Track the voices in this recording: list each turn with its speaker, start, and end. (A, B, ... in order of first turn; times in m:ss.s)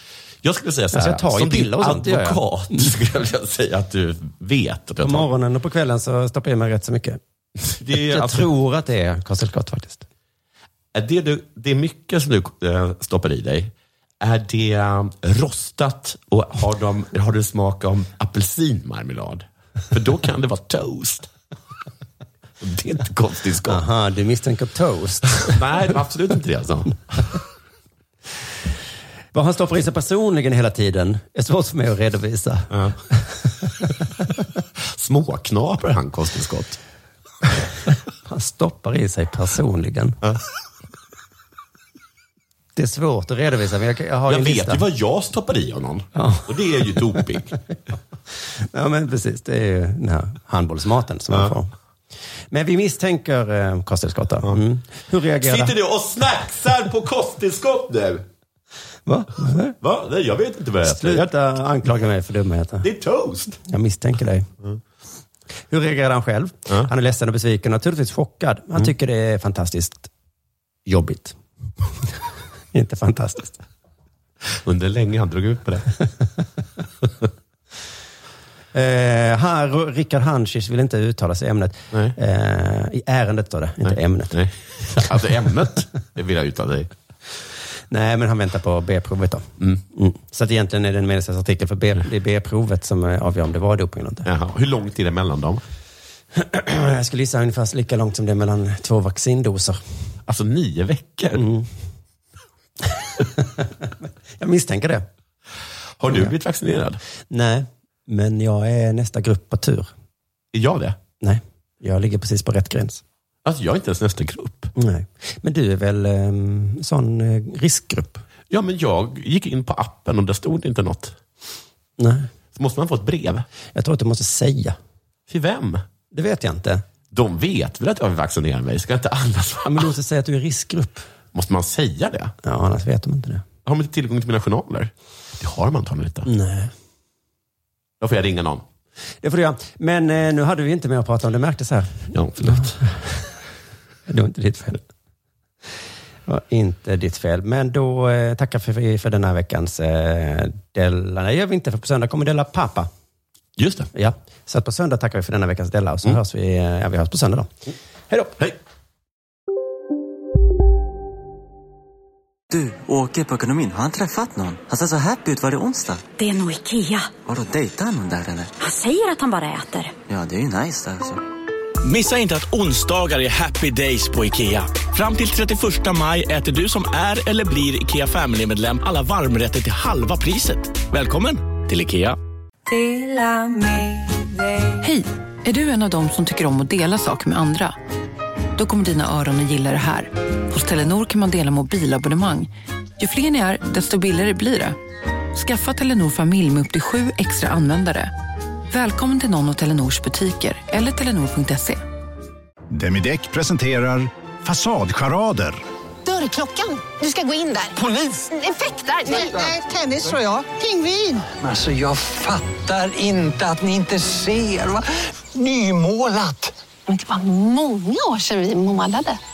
0:00.4-0:05.3 A
0:00.9-0:02.9 B
0:05.0-0:07.2 B
0:07.6-0:08.5 A
0:07.9-0:10.1 B
0:10.9-0:21.3 A
0:22.6-0:23.8 A
0:23.7-0:25.6 B
0:25.4-0:27.3 A
0:29.3-0:33.9 B
0:32.7-0:33.0 A
0:34.8-0:36.8 A
0:38.3-0:40.2 B
0:42.8-0:44.9 B
0:44.3-0:47.6 A
0:46.2-0:47.2 B
0:48.6-0:51.7 B
0:52.5-0:55.8 B
0:55.4-0:58.3 A
0:59.1-0:59.8 B
0:59.8-1:01.3 A
1:00.8-1:02.9 B
1:02.8-1:03.6 A
1:03.6-1:04.5 B
1:05.7-1:10.1 B
1:10.9-1:11.4 B
1:12.7-1:13.6 B
1:14.4-1:15.9 A
1:18.7-1:24.4 B
1:23.8-1:26.9 A
1:27.9-1:34.3 B
1:34.2-1:35.6 A
1:36.4-1:39.8 B
1:40.3-1:41.5 A
1:41.4-1:41.7 B
1:43.0-1:45.0 B
1:46.0-1:47.0 A
1:47.3-1:49.9 B
1:50.5-1:51.0 A
1:51.2-1:53.0 B
1:53.4-1:54.7 A
1:54.8-1:58.2 B
1:58.5-2:01.2 A
2:02.0-2:02.3 B
2:02.5-2:03.5 A
2:03.8-2:04.8 B
2:05.3-2:05.8 A
2:06.1-2:06.8 B
2:07.1-2:09.9 A
2:09.7-2:11.0 B
2:11.3-2:12.3 A
2:12.4-2:13.4 B
2:13.6-2:16.3 A
2:16.3-2:16.7 B
2:18.0-2:18.6 A
2:19.2-2:23.2 B
2:22.1-2:22.8 A
2:24.1-2:24.8 B
2:26.3-2:32.9 B
2:33.6-2:33.9 A
2:33.9-2:37.5 B
2:38.1-2:38.4 B
2:42.5-2:46.1 C
2:46.2-2:47.2 D
2:47.2-2:48.5 C
2:48.6-2:49.9 D
2:50.1-2:51.2 C
2:51.8-3:02.2 E
3:04.8-3:07.8 F
3:08.6-3:14.8 F
3:15.3-3:18.1 F
3:18.7-3:21.8 F
3:22.7-3:25.6 G
3:26.1-3:27.7 H
3:27.7-3:36.5 I
3:28.4-3:31.0 H
3:36.9-3:39.2 H